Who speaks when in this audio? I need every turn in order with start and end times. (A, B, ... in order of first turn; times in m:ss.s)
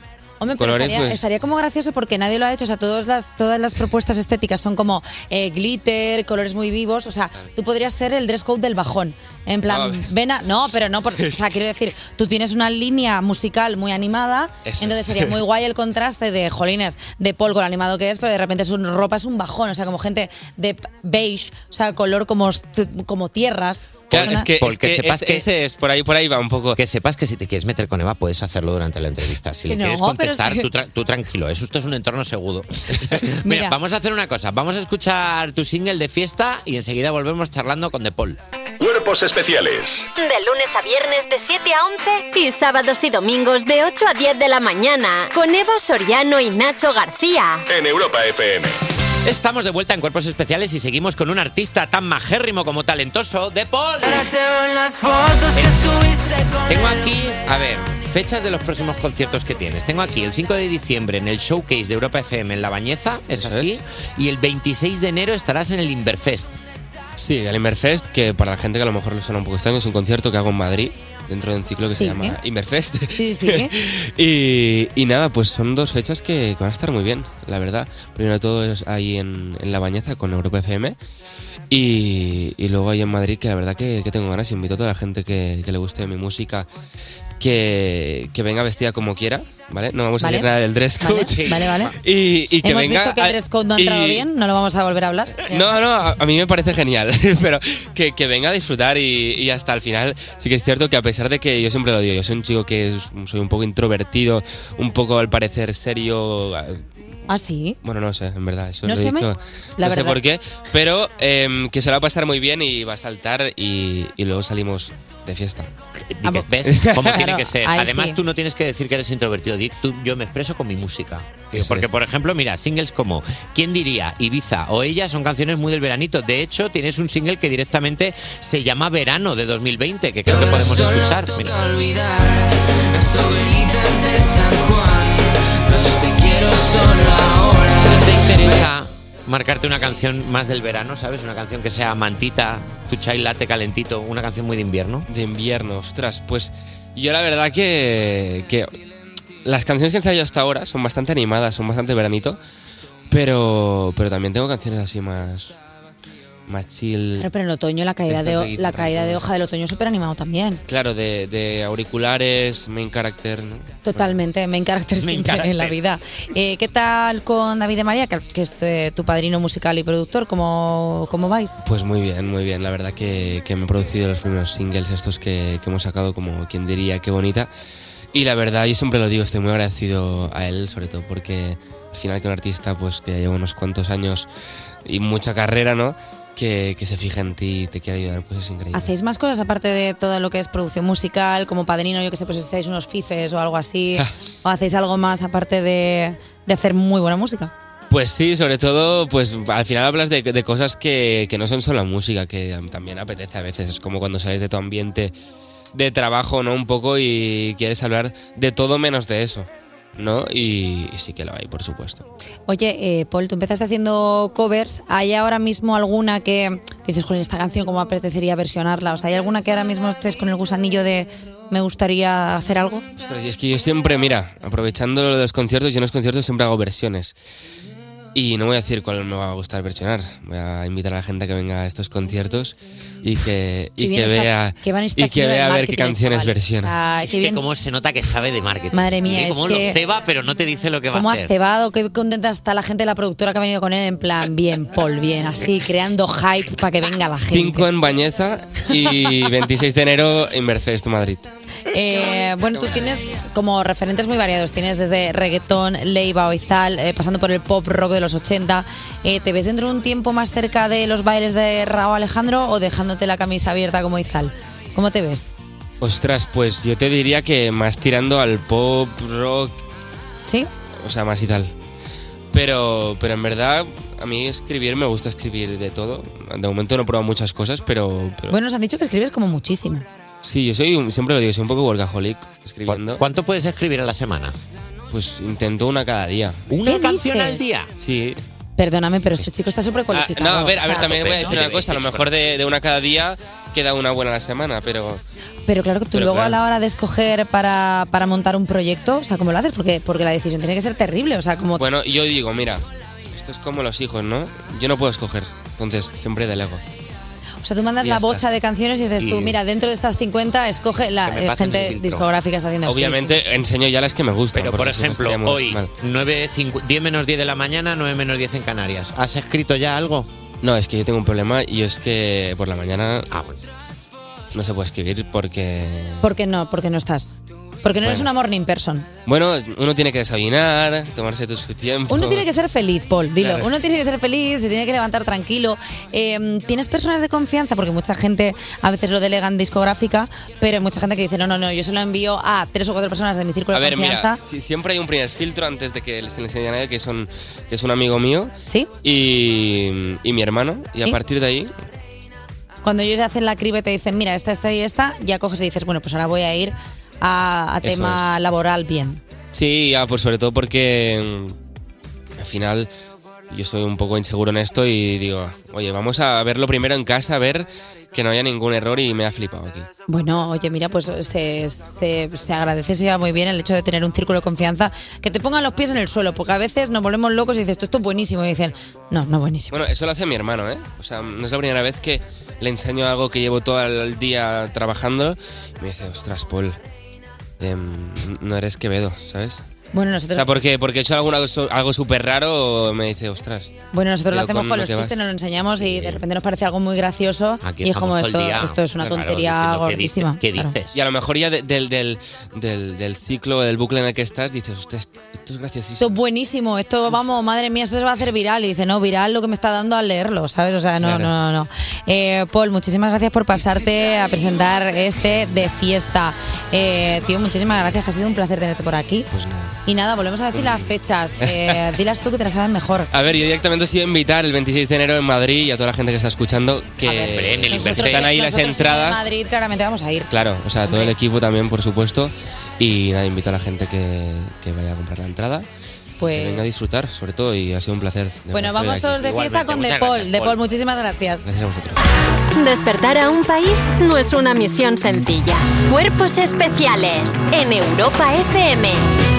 0:00.4-0:24.5 A
0:00.5-0:01.3 B
0:09.7-0:10.1 B
0:14.6-0:15.4 B
0:24.1-0:26.8 B
0:24.1-0:25.5 C
0:26.8-0:38.4 C
0:29.7-0:30.7 A
0:33.4-0:33.8 A
0:38.8-0:40.1 D
0:40.2-0:47.6 E
0:47.7-0:48.8 D
0:49.2-0:54.3 C
0:54.0-0:57.1 F
0:55.5-0:55.9 C
0:56.7-1:06.6 C
1:03.3-1:03.7 B
1:07.2-1:21.0 B
1:12.0-1:12.4 A
1:13.1-1:13.7 A
1:21.7-1:26.7 B
1:27.4-1:31.4 B
1:30.2-1:30.5 A
1:31.0-1:31.9 A
1:31.2-1:32.0 C
1:32.0-1:34.2 B
1:32.6-1:35.7 A
1:35.5-1:46.9 B
1:47.3-1:47.8 A
1:47.8-1:55.7 B
1:48.8-1:50.2 A
1:56.1-2:11.5 C
1:56.2-1:58.2 A
1:56.7-1:57.1 B
2:01.6-2:01.9 B
2:10.3-2:18.6 F
2:17.8-2:25.0 C
2:25.1-2:28.7 B
2:29.4-2:32.4 B
2:33.1-2:35.5 B
2:36.5-2:37.3 B
2:37.2-2:40.6 A
2:38.1-2:39.2 B
2:40.7-2:44.2 B
2:43.8-2:51.5 A
2:45.0-2:45.7 C
2:51.6-2:57.5 B
2:58.1-3:04.3 B
3:04.8-3:08.9 B
3:08.7-3:17.5 A
3:17.9-3:25.1 B
3:25.7-3:32.1 B
3:32.5-3:42.8 A
3:43.0-3:47.1 B
3:48.1-3:56.7 B
3:53.8-3:57.4 A
3:57.0-4:01.3 C
3:58.7-3:59.8 A
4:00.9-4:07.7 A
4:07.3-4:11.3 B
4:11.7-4:25.3 A
4:25.8-4:29.6 B
4:30.8-4:31.5 B
4:32.3-4:38.4 B
4:38.3-4:39.8 A
4:40.2-4:43.0 B
4:42.7-4:44.3 C
4:44.9-4:46.4 B
4:46.5-4:47.7 C
4:46.6-4:47.4 A
4:47.8-4:48.2 B
4:48.6-4:51.3 A
4:49.9-4:55.0 B
4:50.7-4:52.1 C
4:55.5-5:01.6 A
4:55.9-4:56.4 B
5:01.6-5:06.6 B
5:07.4-5:13.2 A
5:07.8-5:08.2 B
5:09.0-5:09.4 C
5:11.0-5:12.1 C
5:12.6-5:15.7 B
5:14.3-5:20.1 C
5:20.4-5:23.1 B
5:23.1-5:23.4 C
5:24.3-5:26.0 B
5:26.0-5:27.1 A
5:27.6-5:28.9 A
5:27.8-5:28.1 B
5:29.1-5:32.2 B
5:31.9-5:44.2 A
5:33.2-5:33.5 B
5:43.5-5:48.3 B
5:48.8-5:51.5 B
5:52.6-5:59.0 A
5:57.6-5:58.0 B
5:59.3-6:01.4 B
6:02.2-6:02.7 B
6:03.3-6:09.7 B
6:09.9-6:19.6 A
6:19.5-6:26.6 B
6:27.4-6:29.4 B
6:29.7-6:30.3 A
6:30.1-6:33.5 B
6:33.7-6:40.5 A
6:34.1-6:35.0 B
6:35.6-6:36.0 C
6:37.4-6:40.8 C
6:40.7-6:46.0 B
6:45.8-6:59.1 A
6:50.8-6:51.1 B
6:59.1-6:59.6 B
6:59.6-7:02.9 A
7:00.3-7:00.7 B
7:01.2-7:01.6 B
7:02.9-7:09.0 B
7:06.8-7:10.1 A
7:07.0-7:08.1 C
7:10.1-7:15.4 B
7:10.6-7:10.9 A
7:16.0-7:16.5 A
7:16.0-7:19.0 B
7:18.3-7:21.2 A
7:18.9-7:20.4 C
7:21.2-7:21.8 B
7:22.3-7:28.8 E